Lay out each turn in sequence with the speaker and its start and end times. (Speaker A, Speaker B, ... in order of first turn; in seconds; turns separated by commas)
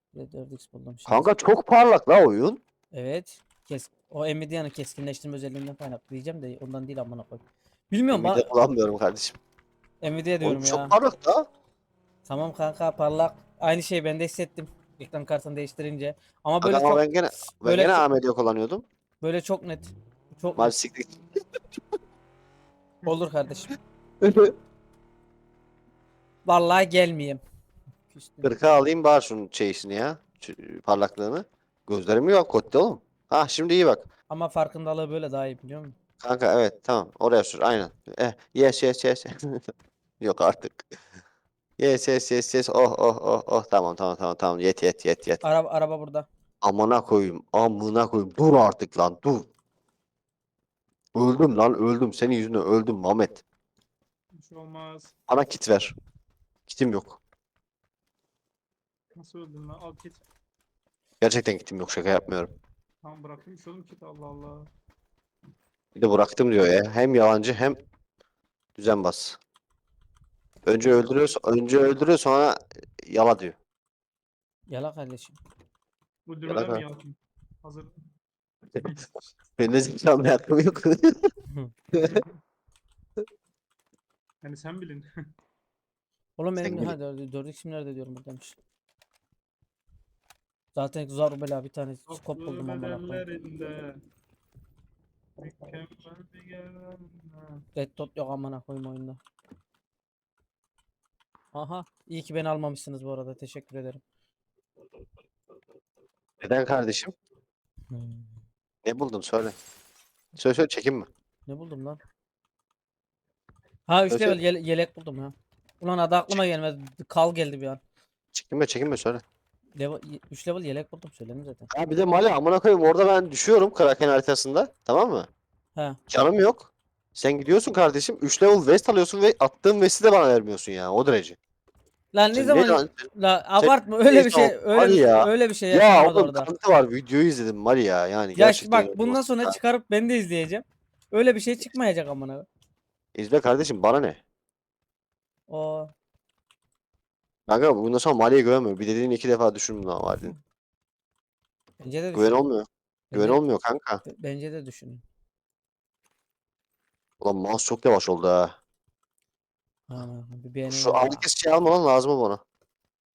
Speaker A: 0.1-1.3, Speaker B: 1.1-2.6, Speaker A: 2.9-8.5, Speaker B: 8.1-9.4, Speaker A: 10.0-10.9, Speaker B: 10.4-11.5, Speaker A: 12.3-17.0, Speaker B: 16.6-18.9, Speaker A: 17.6-18.1, Speaker A: 19.2-20.8, Speaker B: 20.6-21.1, Speaker A: 23.1-23.7, Speaker B: 24.2-24.6, Speaker A: 26.5-27.4, Speaker A: 28.1-28.5, Speaker B: 28.4-34.1, Speaker A: 34.3-36.0, Speaker B: 36.2-39.7, Speaker B: 40.2-40.9, Speaker B: 41.8-45.4, Speaker A: 45.4-46.3, Speaker B: 46.6-49.5, Speaker B: 51.1-53.4, Speaker C: 54.3-55.1, Speaker B: 55.3-55.9, Speaker B: 56.7-57.2, Speaker C: 59.1-60.2, Speaker B: 61.2-62.5, Speaker C: 63.0-64.7, Speaker B: 66.0-67.8, Speaker B: 68.8-69.4, Speaker B: 70.7-73.6, Speaker A: 74.7-75.4, Speaker C: 76.3-77.9, Speaker B: 76.5-76.8, Speaker C: 78.8-79.1, Speaker B: 79.6-81.3, Speaker B: 81.9-82.2, Speaker C: 82.0-82.3, Speaker C: 84.4-85.1, Speaker A: 86.4-88.6, Speaker B: 86.6-87.0, Speaker A: 90.8-93.2, Speaker C: 92.1-94.0, Speaker C: 95.4-97.6, Speaker A: 97.8-99.2, Speaker A: 101.5-104.0, Speaker B: 106.4-107.1, Speaker A: 107.9-108.4, Speaker B: 108.8-109.6, Speaker B: 110.4-111.1, Speaker A: 111.5-112.0, Speaker A: 113.9-117.8, Speaker B: 114.1-114.4, Speaker B: 118.3-119.2, Speaker A: 119.8-121.7, Speaker B: 121.7-125.3, Speaker B: 126.1-131.4, Speaker A: 132.1-136.5, Speaker B: 132.3-133.1, Speaker B: 133.6-139.6, Speaker A: 138.4-142.5, Speaker B: 143.2-144.2, Speaker A: 145.5-145.9, Speaker B: 147.5-150.3, Speaker A: 151.8-152.5, Speaker B: 152.1-154.0, Speaker A: 153.1-153.4, Speaker A: 154.0-155.0, Speaker B: 157.2-158.6, Speaker A: 159.9-161.3, Speaker B: 160.7-162.4